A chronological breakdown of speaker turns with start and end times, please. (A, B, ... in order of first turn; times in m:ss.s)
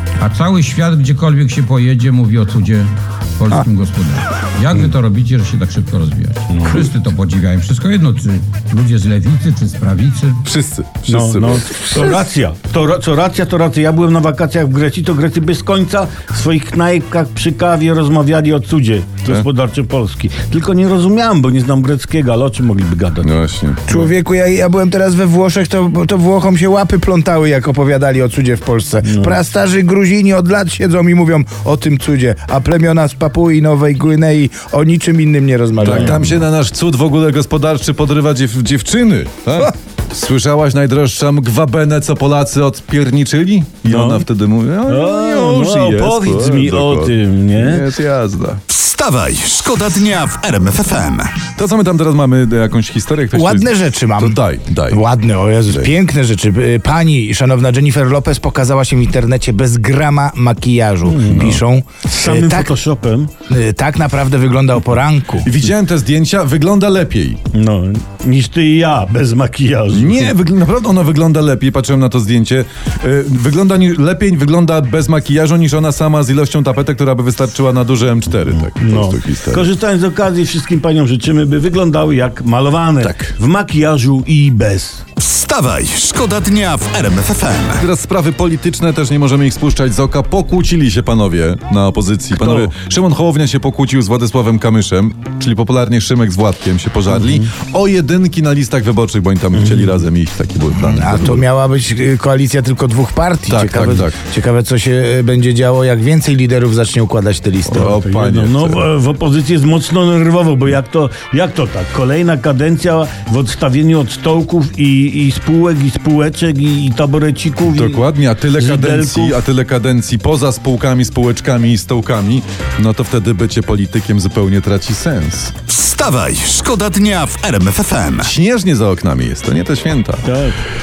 0:00.2-0:10.4 A
0:06.5-0:06.9 B
0:10.4-0:11.9 C
0:11.1-0:24.1 B
0:23.2-0:23.9 C
0:23.9-0:36.1 D
0:29.0-0:29.4 B
0:35.8-0:48.6 C
0:35.9-0:36.4 B
0:43.8-0:44.3 B
0:44.9-0:47.9 B
0:48.7-0:51.4 E
0:51.5-0:55.1 C
0:53.3-1:02.8 D
0:55.7-0:55.9 C
1:01.0-1:01.6 B
1:01.3-1:01.6 C
1:02.1-1:03.3 B
1:03.5-1:05.5 D
1:05.4-1:07.4 C
1:07.5-1:10.4 B
1:09.9-1:19.7 C
1:18.8-1:25.0 B
1:23.0-1:23.3 C
1:25.2-1:27.8 E
1:27.8-1:41.5 C
1:32.4-1:32.7 B
1:37.1-1:37.5 B
1:39.6-1:40.0 B
1:40.8-1:48.0 D
1:43.5-1:44.2 C
1:47.6-1:48.9 C
1:47.8-1:59.4 B
1:57.7-2:05.6 C
2:05.7-2:08.3 E
2:08.2-2:10.2 C
2:10.2-2:10.6 B